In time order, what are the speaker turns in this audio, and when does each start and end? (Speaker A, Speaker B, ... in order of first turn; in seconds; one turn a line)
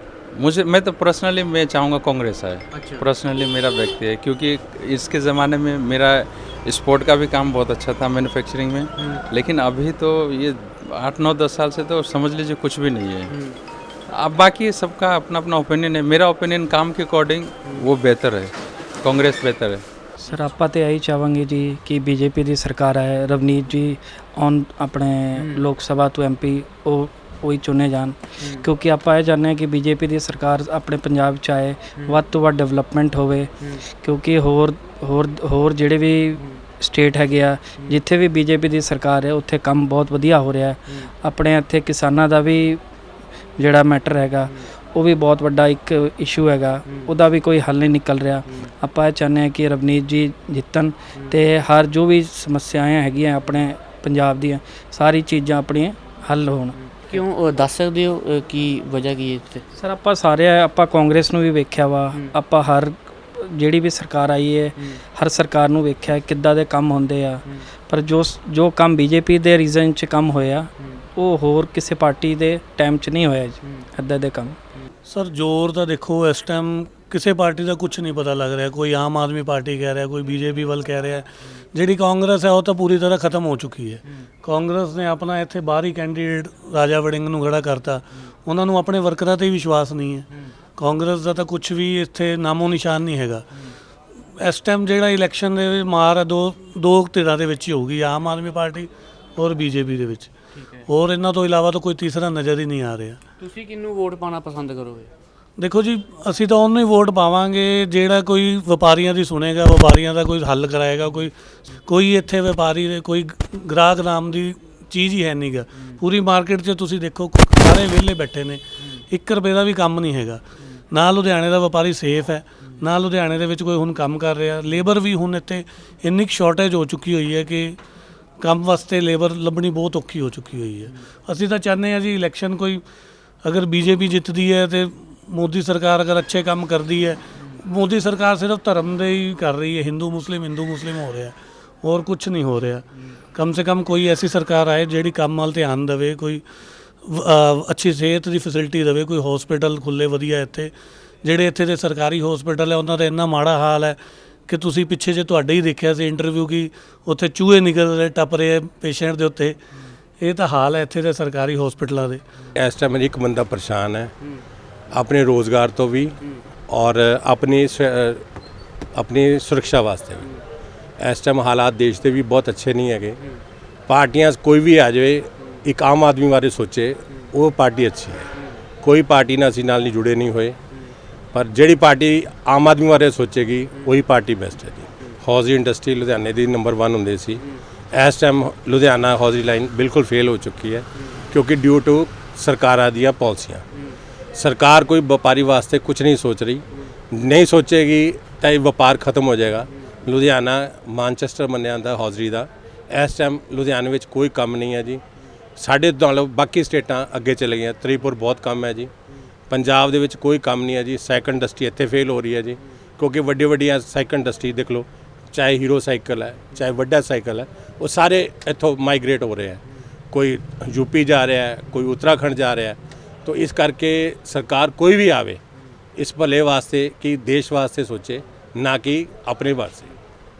Speaker A: 0.3-13.3
Speaker B: 2.7-3.0
Speaker B: 13.3-13.6
Speaker A: 14.1-19.8
Speaker C: 20.2-42.8
Speaker B: 25.4-25.6
Speaker B: 28.4-28.7
Speaker C: 43.6-56.8
Speaker B: 56.8-59.6
Speaker C: 59.8-74.6
Speaker D: 75.1-93.5
Speaker D: 94.4-100.3
Speaker B: 100.5-100.8
Speaker D: 100.9-103.2
Speaker B: 103.4-105.1
Speaker D: 105.6-111.3
Speaker D: 111.8-127.8
Speaker D: 128.4-132.8
Speaker D: 133.4-146.4
Speaker D: 147.0-150.7
Speaker D: 151.2-159.6
Speaker D: 160.2-162.2
Speaker E: 162.5-164.1
Speaker E: 164.9-168.2
Speaker E: 168.9-170.2
Speaker E: 171.0-173.2
Speaker E: 173.9-178.2
Speaker E: 178.8-180.6
Speaker E: 181.3-193.6
Speaker E: 194.3-205.0
Speaker E: 205.6-208.9
Speaker E: 209.5-219.6
Speaker E: 220.1-225.4
Speaker E: 226.0-229.9